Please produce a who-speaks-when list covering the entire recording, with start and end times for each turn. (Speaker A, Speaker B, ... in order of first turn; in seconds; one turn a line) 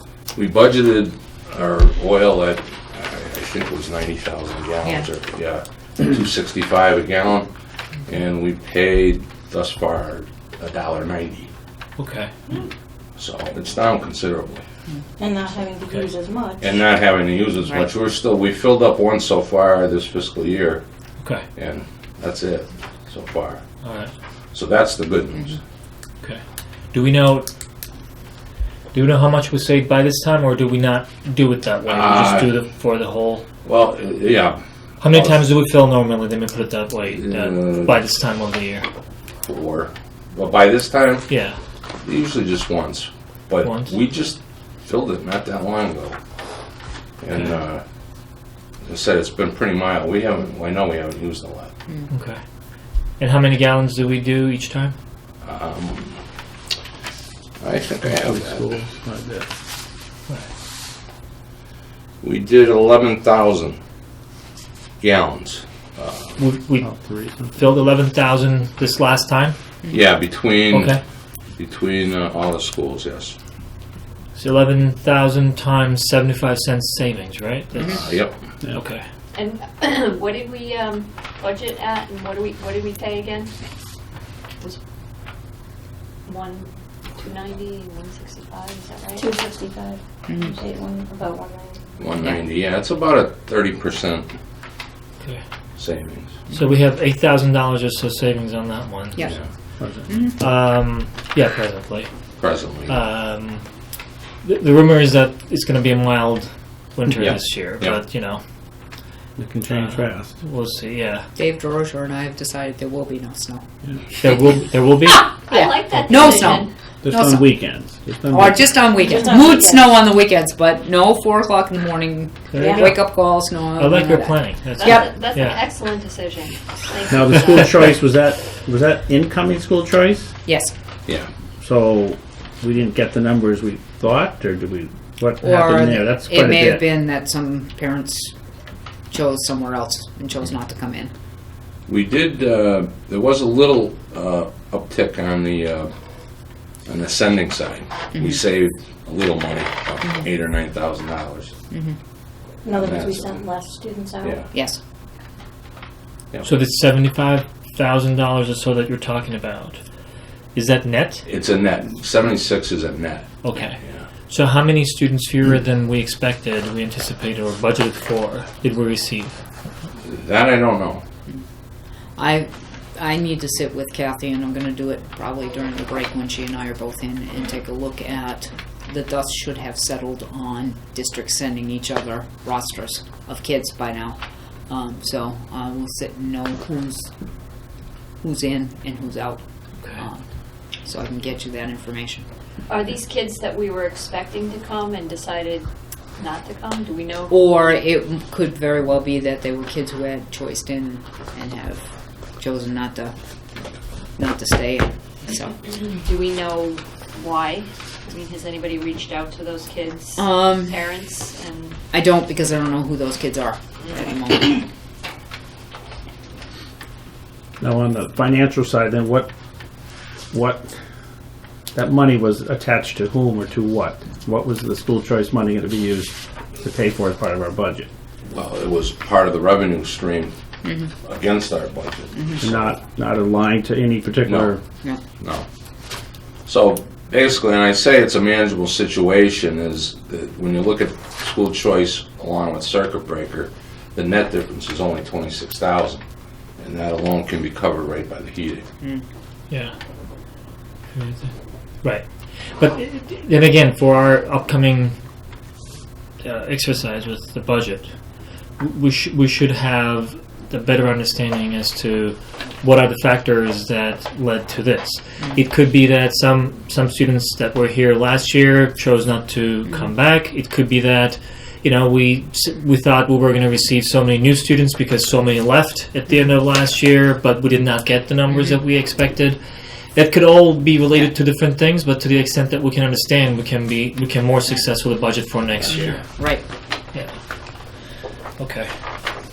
Speaker A: 0.3-7.5
Speaker A: 8.1-11.5
Speaker B: 12.0-12.3
Speaker A: 13.2-14.6
Speaker C: 15.2-16.8
Speaker A: 16.6-20.8
Speaker B: 21.2-21.5
Speaker A: 21.6-23.6
Speaker B: 23.8-24.1
Speaker A: 24.5-25.6
Speaker B: 26.9-27.5
Speaker B: 28.9-33.5
Speaker A: 31.9-32.5
Speaker A: 33.6-35.5
Speaker B: 35.0-38.9
Speaker A: 37.1-38.0
Speaker A: 39.4-41.3
Speaker B: 41.3-41.6
Speaker A: 42.0-46.2
Speaker B: 43.6-44.0
Speaker A: 47.2-47.8
Speaker B: 47.3-47.6
Speaker A: 48.8-51.7
Speaker B: 52.1-52.4
Speaker B: 53.2-55.0
Speaker A: 55.4-56.2
Speaker A: 57.6-58.7
Speaker D: 58.1-59.5
Speaker A: 62.2-63.8
Speaker A: 65.0-66.4
Speaker B: 66.4-66.9
Speaker D: 66.8-67.7
Speaker B: 67.5-69.5
Speaker A: 69.9-71.0
Speaker B: 70.7-71.0
Speaker A: 71.6-73.4
Speaker B: 74.3-78.1
Speaker A: 77.8-78.5
Speaker B: 78.7-79.0
Speaker E: 79.3-83.5
Speaker E: 86.3-89.3
Speaker C: 89.2-91.8
Speaker A: 92.0-94.3
Speaker A: 95.8-96.3
Speaker B: 96.5-99.3
Speaker D: 99.8-100.3
Speaker F: 100.1-100.4
Speaker B: 100.4-102.1
Speaker A: 102.4-103.0
Speaker B: 102.9-103.7
Speaker B: 104.4-108.4
Speaker A: 107.2-108.0
Speaker D: 109.4-110.4
Speaker B: 109.7-111.3
Speaker F: 111.4-113.6
Speaker B: 114.2-115.5
Speaker E: 115.5-116.7
Speaker F: 115.5-117.6
Speaker D: 117.0-118.8
Speaker F: 118.3-125.1
Speaker C: 119.1-119.4
Speaker B: 122.5-125.6
Speaker E: 124.8-127.8
Speaker D: 127.1-130.3
Speaker F: 130.4-130.7
Speaker A: 131.1-131.3
Speaker D: 131.6-136.9
Speaker F: 135.4-138.3
Speaker F: 139.1-141.1
Speaker A: 141.9-145.9
Speaker A: 146.8-151.6
Speaker F: 148.1-148.4
Speaker F: 151.7-152.0
Speaker C: 152.6-154.4
Speaker A: 152.8-153.4
Speaker A: 154.2-154.5
Speaker F: 154.5-154.8
Speaker B: 156.4-159.8
Speaker B: 160.5-161.2
Speaker A: 161.2-164.1
Speaker B: 163.4-169.4
Speaker A: 170.0-171.1
Speaker F: 172.2-187.1
Speaker F: 188.2-189.4
Speaker B: 189.8-190.0
Speaker F: 189.9-190.2
Speaker F: 190.8-192.2
Speaker E: 192.7-197.8
Speaker F: 197.3-203.2
Speaker F: 204.2-205.6
Speaker E: 205.7-211.8
Speaker F: 210.2-210.8
Speaker F: 211.9-214.7
Speaker D: 217.6-219.3
Speaker D: 220.3-220.7
Speaker D: 221.7-227.9
Speaker A: 228.3-230.4
Speaker F: 230.7-230.9
Speaker A: 231.0-232.5
Speaker F: 232.2-232.8
Speaker D: 232.4-234.6
Speaker A: 234.2-234.6
Speaker A: 235.2-235.5
Speaker A: 236.4-246.0
Speaker A: 246.6-248.7
Speaker B: 249.5-249.8
Speaker B: 250.9-251.3
Speaker B: 251.8-255.0
Speaker B: 256.2-257.9
Speaker B: 258.6-279.4
Speaker B: 279.9-286.0
Speaker F: 286.2-286.4
Speaker B: 288.4-288.7